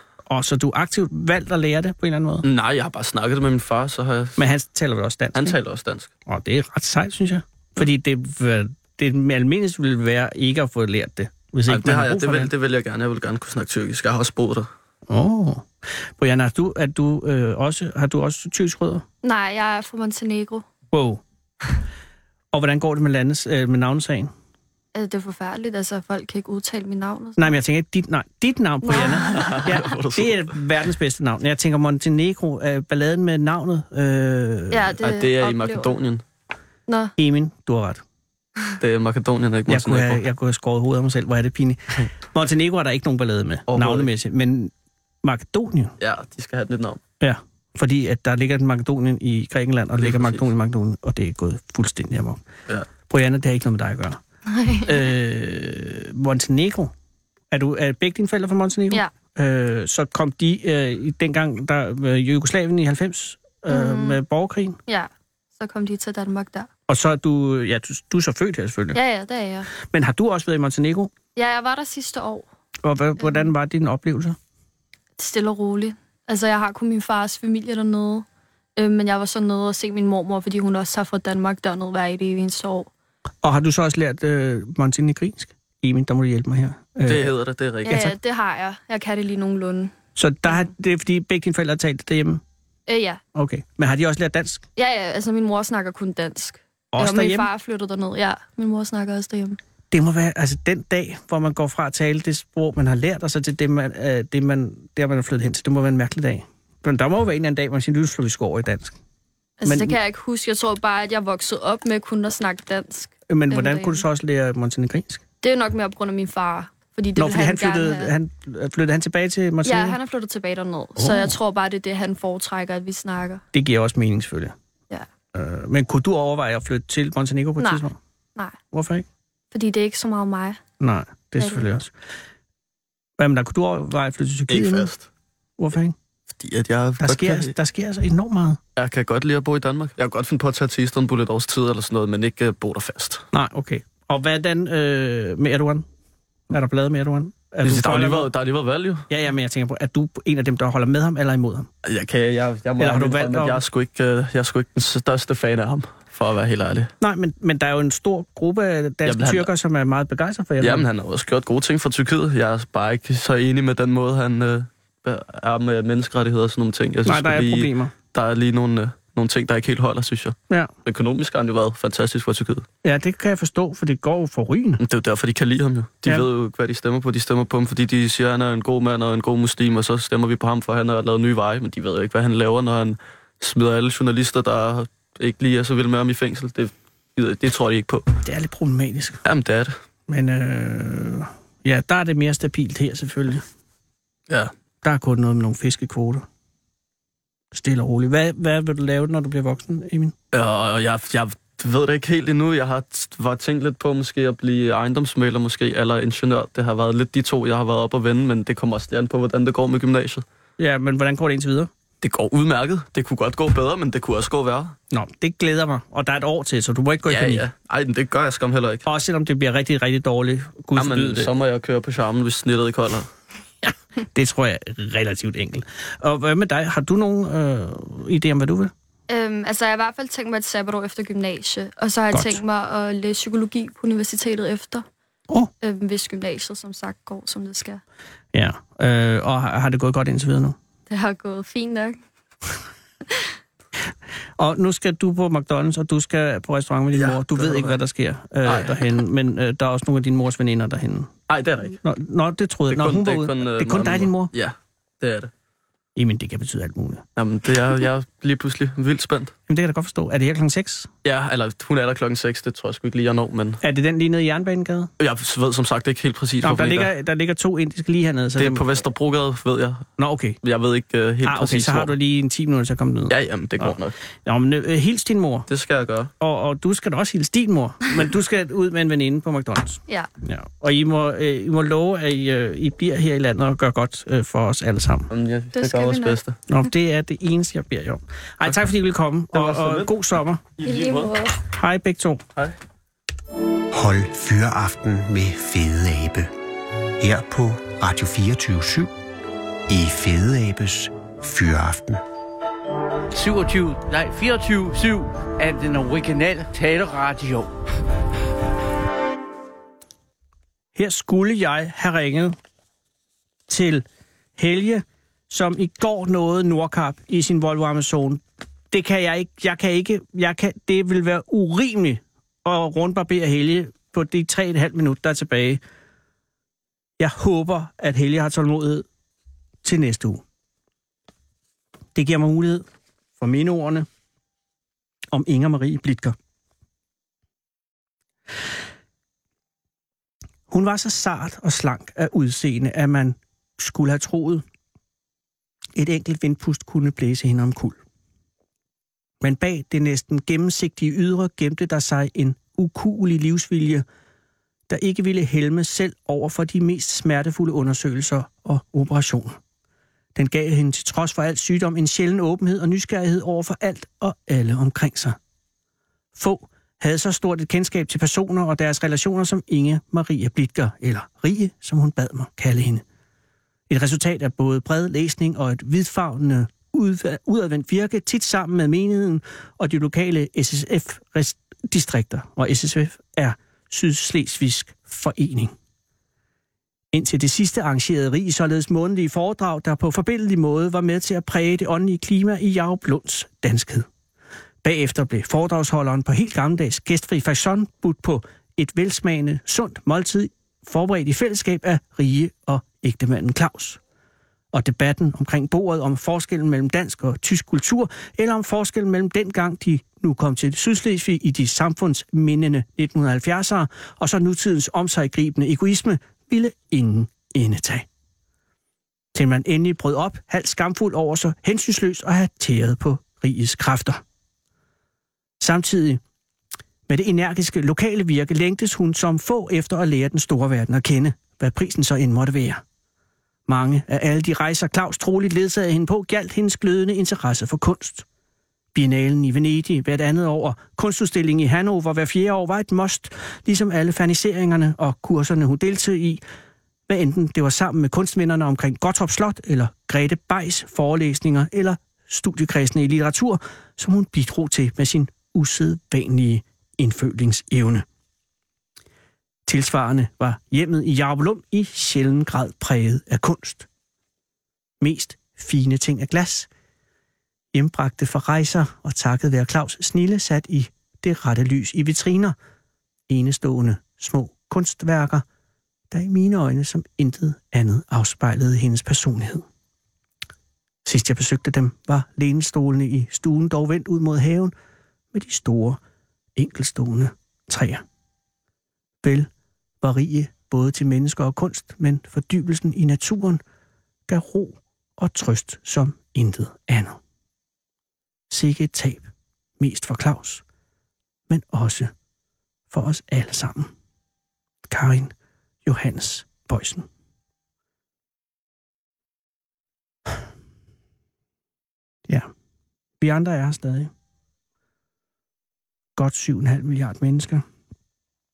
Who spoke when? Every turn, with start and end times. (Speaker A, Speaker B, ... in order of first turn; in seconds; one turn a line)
Speaker A: 0.3-2.4
Speaker B: 2.4-4.4
Speaker A: 4.4-5.6
Speaker B: 5.3-6.1
Speaker A: 6.2-12.5
Speaker B: 11.7-14.7
Speaker A: 15.1-19.0
Speaker C: 19.2-20.7
Speaker A: 20.9-21.2
Speaker A: 22.5-24.3
Speaker C: 24.9-27.5
Speaker A: 27.4-35.0
Speaker C: 28.8-29.5
Speaker B: 28.9-30.5
Speaker C: 34.7-36.0
Speaker B: 35.0-36.2
Speaker C: 36.9-37.1
Speaker A: 37.2-38.0
Speaker B: 38.8-40.2
Speaker A: 39.7-44.7
Speaker B: 43.7-44.1
Speaker A: 45.2-45.9
Speaker B: 46.0-47.0
Speaker A: 47.2-54.2
Speaker B: 50.0-50.5
Speaker C: 54.5-55.1
Speaker A: 54.9-56.9
Speaker A: 57.5-64.8
Speaker C: 63.7-64.2
Speaker C: 64.9-66.7
Speaker A: 66.9-69.0
Speaker C: 68.9-69.7
Speaker A: 69.7-71.1
Speaker C: 71.3-72.5
Speaker A: 72.8-74.3
Speaker C: 73.2-73.5
Speaker C: 75.2-78.2
Speaker C: 78.8-82.9
Speaker A: 83.4-87.3
Speaker B: 87.0-88.0
Speaker C: 87.8-90.7
Speaker A: 90.2-92.4
Speaker C: 92.9-93.2
Speaker A: 93.3-94.6
Speaker C: 94.8-99.6
Speaker A: 96.9-97.5
Speaker A: 99.9-109.0
Speaker C: 109.6-114.0
Speaker A: 109.6-110.0
Speaker A: 113.3-115.2
Speaker C: 115.4-118.1
Speaker A: 117.2-120.0
Speaker C: 119.6-123.4
Speaker A: 121.0-121.3
Speaker A: 123.5-124.5
Speaker A: 125.3-128.0
Speaker C: 127.6-127.8
Speaker A: 128.7-129.0
Speaker C: 129.5-130.6
Speaker A: 130.8-131.9
Speaker C: 131.4-131.7
Speaker A: 133.2-134.9
Speaker B: 134.5-135.1
Speaker A: 135.6-135.9
Speaker B: 136.3-137.5
Speaker A: 137.0-138.6
Speaker B: 138.8-143.3
Speaker A: 143.3-145.8
Speaker A: 146.5-148.3
Speaker B: 147.6-149.1
Speaker A: 149.1-151.7
Speaker B: 151.8-156.9
Speaker A: 152.8-153.6
Speaker A: 157.0-160.9
Speaker B: 159.0-159.5
Speaker B: 160.6-172.7
Speaker A: 167.1-167.9
Speaker A: 172.8-174.8
Speaker B: 174.8-188.0
Speaker A: 188.2-189.2
Speaker B: 189.2-189.7
Speaker A: 190.1-193.4
Speaker A: 194.8-196.2
Speaker A: 197.5-200.1
Speaker B: 200.3-210.2
Speaker A: 210.6-211.7
Speaker B: 212.0-214.8
Speaker A: 214.9-217.4
Speaker B: 217.0-218.9
Speaker A: 218.8-221.3
Speaker B: 220.8-223.1
Speaker A: 224.1-228.7
Speaker C: 229.1-234.8
Speaker A: 232.1-232.4
Speaker C: 235.6-237.8
Speaker A: 238.3-240.6
Speaker C: 240.9-242.0
Speaker A: 244.4-251.1
Speaker B: 246.9-247.8
Speaker B: 248.4-249.0
Speaker B: 251.3-251.8
Speaker A: 251.8-254.3
Speaker B: 252.7-255.3
Speaker A: 255.9-257.0
Speaker B: 257.1-259.3
Speaker A: 259.5-260.9
Speaker B: 261.0-263.6
Speaker A: 263.6-264.9
Speaker B: 265.0-266.9
Speaker A: 266.4-268.8
Speaker B: 268.4-269.9
Speaker A: 270.0-270.4
Speaker B: 270.4-271.9
Speaker A: 271.2-275.5
Speaker B: 273.1-273.9
Speaker B: 275.5-276.1
Speaker A: 276.2-285.1
Speaker B: 285.1-286.4
Speaker C: 285.5-286.2
Speaker A: 286.5-290.4
Speaker B: 289.3-290.0
Speaker B: 290.6-291.1
Speaker C: 290.6-291.4
Speaker A: 291.5-292.2
Speaker D: 293.7-296.3
Speaker D: 297.0-298.9
Speaker D: 299.7-302.0
Speaker E: 303.1-307.5
Speaker A: 310.8-312.3
Speaker A: 313.5-313.8
Speaker A: 314.4-325.6
Speaker A: 327.0-328.8
Speaker A: 329.6-330.2
Speaker A: 331.9-332.6
Speaker A: 333.2-333.9
Speaker A: 335.1-336.1
Speaker A: 340.5-344.4
Speaker A: 345.7-347.8
Speaker A: 349.2-353.8
Speaker A: 354.7-359.4
Speaker A: 360.1-365.2
Speaker A: 366.1-372.8
Speaker A: 373.7-385.5
Speaker A: 386.9-393.9
Speaker A: 394.6-403.8
Speaker A: 404.5-417.9
Speaker A: 419.1-424.0
Speaker A: 425.4-426.0
Speaker A: 426.9-432.6
Speaker A: 433.5-438.0
Speaker A: 438.7-446.2
Speaker A: 446.9-457.8
Speaker A: 459.5-463.7
Speaker A: 464.8-466.5
Speaker A: 467.5-472.3
Speaker A: 473.1-475.2
Speaker A: 475.9-479.4
Speaker A: 480.8-484.5
Speaker A: 485.1-485.8
Speaker A: 486.4-487.8
Speaker A: 489.0-489.3
Speaker A: 489.8-493.4
Speaker A: 494.1-497.0
Speaker A: 498.3-499.0
Speaker A: 499.6-500.4
Speaker A: 501.3-501.9
Speaker A: 502.7-503.7
Speaker A: 504.7-505.1
Speaker A: 505.6-506.9
Speaker A: 513.0-513.9
Speaker A: 516.0-517.4